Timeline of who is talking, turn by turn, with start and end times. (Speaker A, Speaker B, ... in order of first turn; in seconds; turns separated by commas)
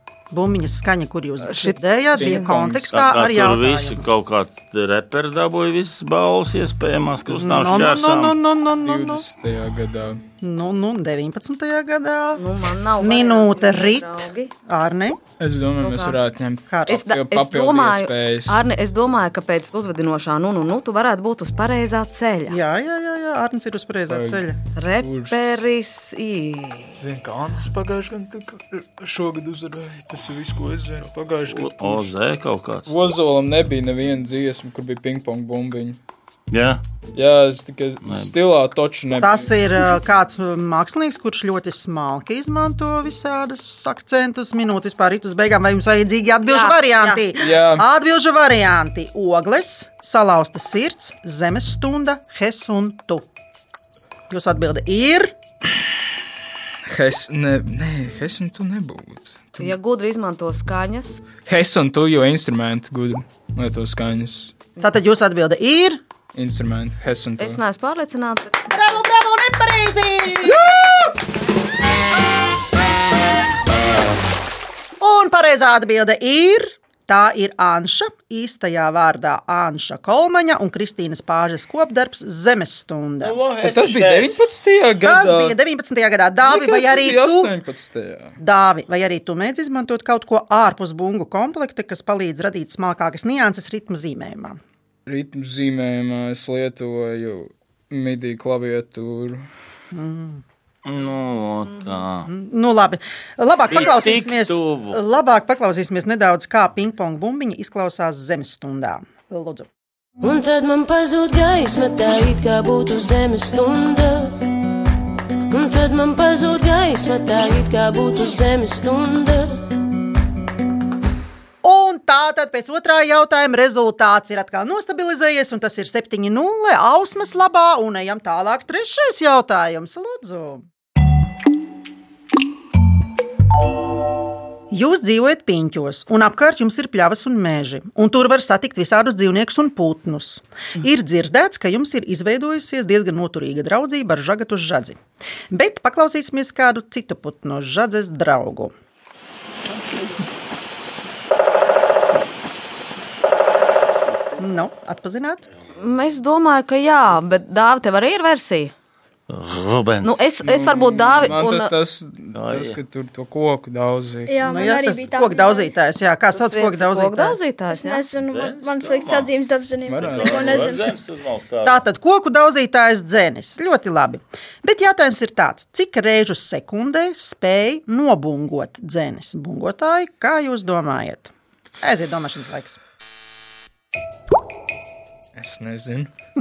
Speaker A: 0.3-4.0, Speaker B: 1.4-2.5, Speaker C: 2.1-2.9, Speaker D: 2.9-8.3, Speaker A: 7.3-9.2, Speaker C: 8.8-10.2, Speaker A: 10.4-15.2, Speaker B: 12.3-14.5, Speaker C: 15.4-18.6, Speaker B: 15.8-16.2, Speaker A: 16.7-17.0, Speaker B: 16.9-22.6, Speaker A: 22.5-24.6, Speaker C: 24.1-24.4, Speaker B: 24.7-27.0, Speaker C: 25.0-25.6, Speaker C: 26.9-32.1, Speaker D: 31.5-32.9, Speaker C: 32.9-36.0, Speaker D: 36.5-36.8, Speaker C: 37.1-39.5, Speaker D: 38.0-38.3, Speaker A: 39.1-53.2, Speaker B: 46.5-47.2, Speaker C: 47.4-47.9, Speaker A: 54.3-55.3, Speaker C: 56.9-59.7, Speaker B: 59.6-61.2, Speaker C: 61.4-64.6, Speaker A: 64.8-66.0, Speaker C: 66.3-67.6, Speaker B: 67.4-68.6, Speaker A: 68.7-70.7, Speaker A: 75.0-83.4, Speaker D: 83.2-84.4, Speaker C: 83.6-85.5, Speaker A: 85.0-87.5, Speaker C: 86.4-88.3, Speaker A: 88.4-94.6, Speaker C: 95.1-99.4, Speaker A: 99.9-100.4, Speaker D: 100.8-102.3, Speaker A: 102.3-109.7, Speaker D: 103.7-105.0, Speaker E: 110.2-114.4, Speaker E: 115.5-119.6, Speaker A: 121.6-130.6, Speaker A: 134.7-145.0, Speaker A: 145.5-148.7, Speaker A: 154.4-155.4, Speaker B: 155.8-158.7, Speaker D: 159.3-161.4, Speaker B: 160.0-161.7, Speaker C: 160.5-164.4, Speaker D: 162.3-162.8, Speaker F: 164.3-165.7, Speaker A: 164.4-167.4, Speaker B: 166.3-168.0, Speaker F: 167.7-170.9, Speaker D: 168.2-169.3, Speaker C: 169.9-170.7, Speaker D: 169.9-171.8, Speaker A: 171.6-182.8, Speaker C: 185.3-186.1